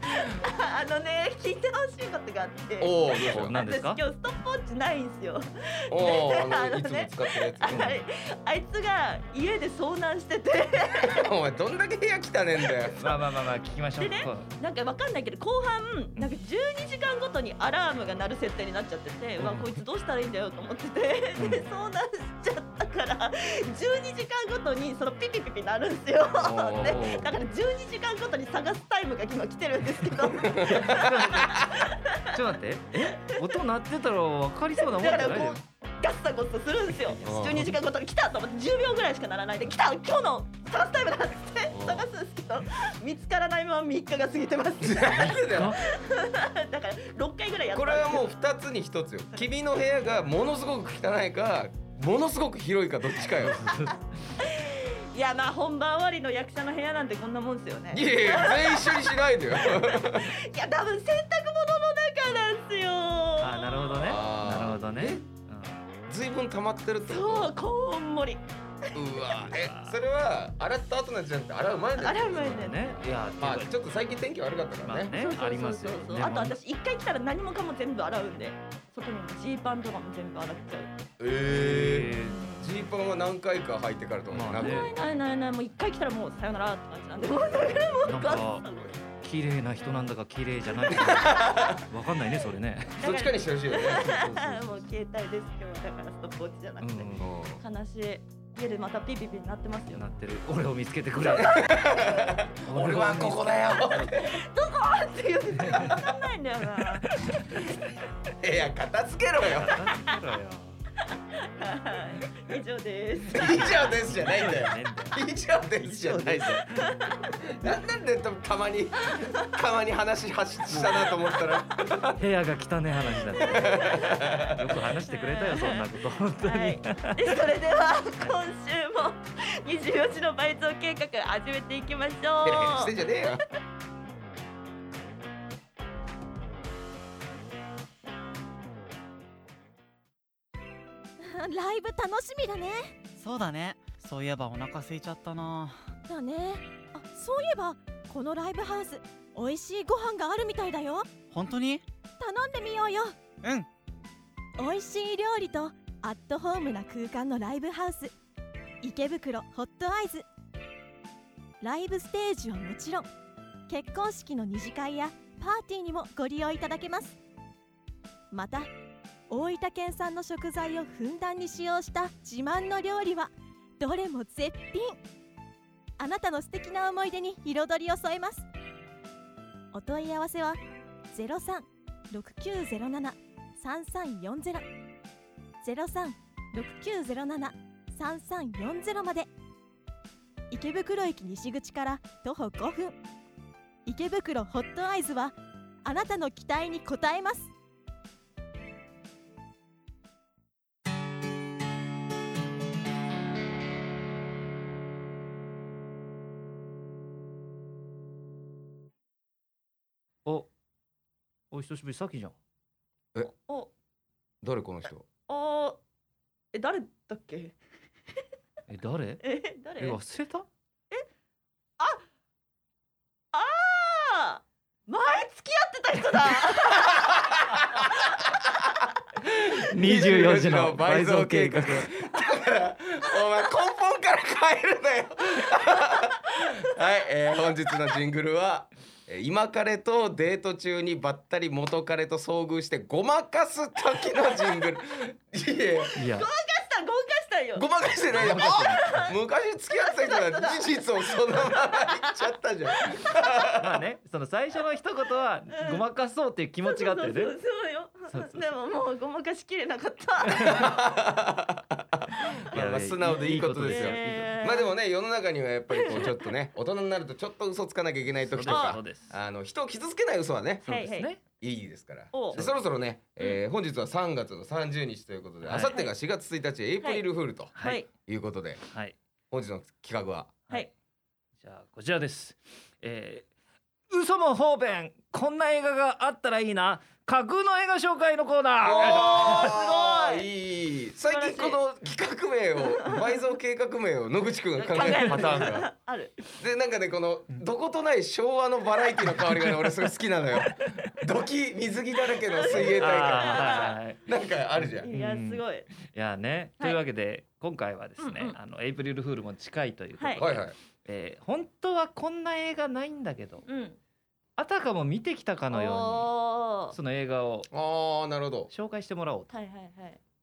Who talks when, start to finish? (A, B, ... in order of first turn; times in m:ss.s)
0:00.2-0:11.2 A
0:02.8-0:03.6 B
0:03.1-0:04.0 C
0:05.9-0:07.9 B
0:07.7-0:08.0 C
0:11.0-0:13.2 B
0:13.0-0:14.5 C
0:14.0-0:32.3 A
0:19.4-0:19.7 C
0:21.4-0:21.7 C
0:26.4-0:27.0 B
0:26.4-0:27.3 C
0:30.4-0:31.7 B
0:30.6-0:35.6 C
0:33.0-0:33.6 A
0:34.8-0:48.2 A
0:37.0-0:37.7 C
0:37.2-0:37.7 B
0:41.7-0:42.1 B
0:44.8-0:45.8 B
0:45.1-0:45.8 C
0:47.7-0:53.7 B
0:53.3-0:54.4 C
0:54.4-1:04.2 A
0:57.9-1:00.3 B
1:03.4-1:05.8 C
1:04.0-1:05.2 B
1:06.1-1:07.5 B
1:07.1-1:08.4 A
1:09.0-1:15.1 B
1:09.3-1:10.0 C
1:12.0-1:12.9 A
1:12.4-1:13.8 C
1:14.8-1:16.6 C
1:15.1-1:20.9 A
1:21.2-1:24.9 B
1:21.5-1:22.4 C
1:22.2-1:22.8 A
1:24.3-1:25.0 C
1:24.6-1:29.0 A
1:27.3-1:28.1 B
1:28.0-1:28.7 C
1:29.2-1:33.1 C
1:30.9-1:31.2 A
1:31.0-1:31.8 B
1:33.0-1:34.4 B
1:33.0-1:40.0 A
1:33.9-1:34.6 C
1:36.8-1:37.3 C
1:37.2-1:37.6 B
1:39.9-1:41.8 C
1:41.2-1:42.4 A
1:41.4-1:44.4 B
1:42.6-1:44.1 C
1:44.1-1:47.1 A
1:45.6-1:45.9 C
1:45.8-1:46.1 B
1:47.1-1:47.7 C
1:48.4-1:49.8 B
1:49.4-1:50.8 C
1:51.4-1:53.6 A
1:53.3-1:55.2 C
1:53.3-1:56.6 B
1:55.8-1:57.0 C
1:56.8-1:57.3 A
1:57.5-2:02.2 B
2:02.1-2:07.4 C
2:03.3-2:04.5 A
2:03.4-2:04.8 B
2:05.1-2:13.0 A
2:12.4-2:13.5 B
2:21.2-2:23.0 D
2:23.2-2:25.8 E
2:26.1-2:31.1 D
2:31.3-2:31.8 E
2:32.2-2:33.2 D
2:34.6-2:38.1 D
2:38.8-2:40.3 D
2:41.6-2:43.1 D
2:43.7-2:47.2 D
2:48.3-2:48.7 D
2:49.3-2:55.0 D
2:56.0-2:58.5 D
2:59.7-3:04.7 D
3:05.6-3:09.3 D
3:10.5-3:13.0 D
3:13.8-3:17.5 D
3:31.5-3:32.4 C
3:34.4-3:35.1 B
3:35.3-3:35.8 A
3:36.5-3:37.6 A
3:38.7-3:40.5 C
3:39.2-3:40.0 A
3:43.3-3:48.2 A
3:46.8-3:48.9 B
3:49.3-3:51.9 C
3:49.7-4:06.0 B
4:05.8-4:09.2 A
4:06.0-4:06.3 C
4:07.6-4:13.8 B
4:08.1-4:09.1 C
4:09.7-4:13.3 A
4:13.6-4:17.4 C
4:15.5-4:15.8 A
4:16.6-4:20.7 A
4:18.1-4:18.5 C
4:20.3-4:20.6 C
4:20.4-4:38.6 B
4:22.5-4:24.4 C
4:23.7-4:24.7 A
4:25.7-4:26.2 A
4:28.3-4:29.1 C
4:28.5-4:28.8 A
4:30.6-4:31.1 A
4:30.7-4:31.2 C
4:32.1-4:32.4 A
4:35.4-4:35.8 C
4:35.6-4:35.9 A
4:36.8-4:37.9 A
4:37.6-4:37.8 C
4:38.7-4:39.0 C
4:39.3-4:40.4 B
4:41.4-4:43.3 C
4:43.9-4:49.6 C
4:48.6-4:55.7 B
4:48.7-4:50.3 A
4:51.1-4:51.6 A
4:54.6-4:56.2 A
4:54.8-4:55.6 C
4:56.4-5:04.9 B
4:59.1-5:00.9 C
5:02.3-5:03.8 A
5:02.5-5:04.1 C
5:04.6-5:13.5 C
5:04.8-5:05.7 A
5:08.0-5:08.4 A
5:10.0-5:10.2 A
5:10.2-5:10.6 B
5:13.5-5:13.8 A
5:14.4-5:16.1 C
5:15.5-5:16.8 A
5:16.7-5:17.5 C
5:17.5-5:18.5 B
5:18.5-5:19.3 C
5:19.3-5:20.0 A